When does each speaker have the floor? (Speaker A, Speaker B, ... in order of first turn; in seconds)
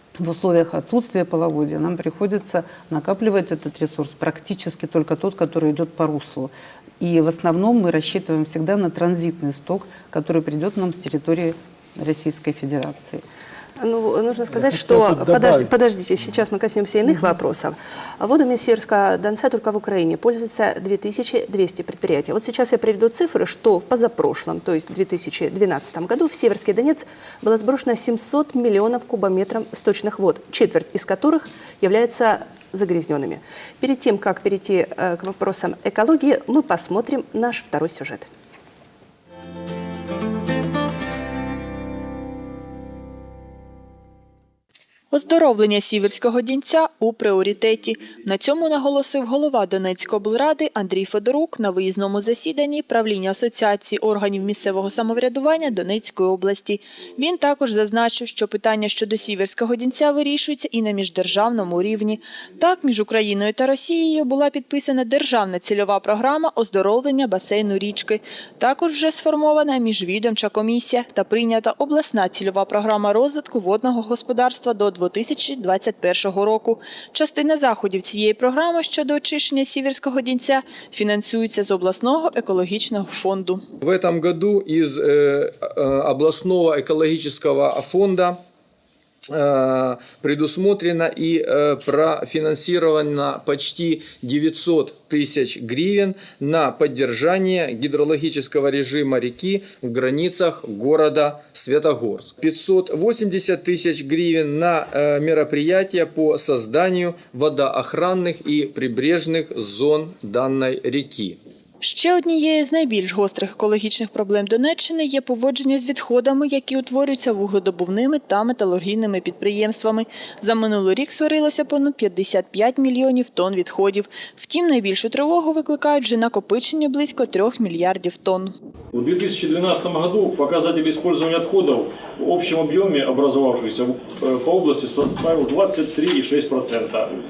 Speaker A: 0.2-13.2
Speaker B: 13.8-38.3
Speaker C: 45.1-83.6, 111.8-128.5
Speaker D: 83.8-88.4, 89.3-111.4
Speaker E: 128.9-137.1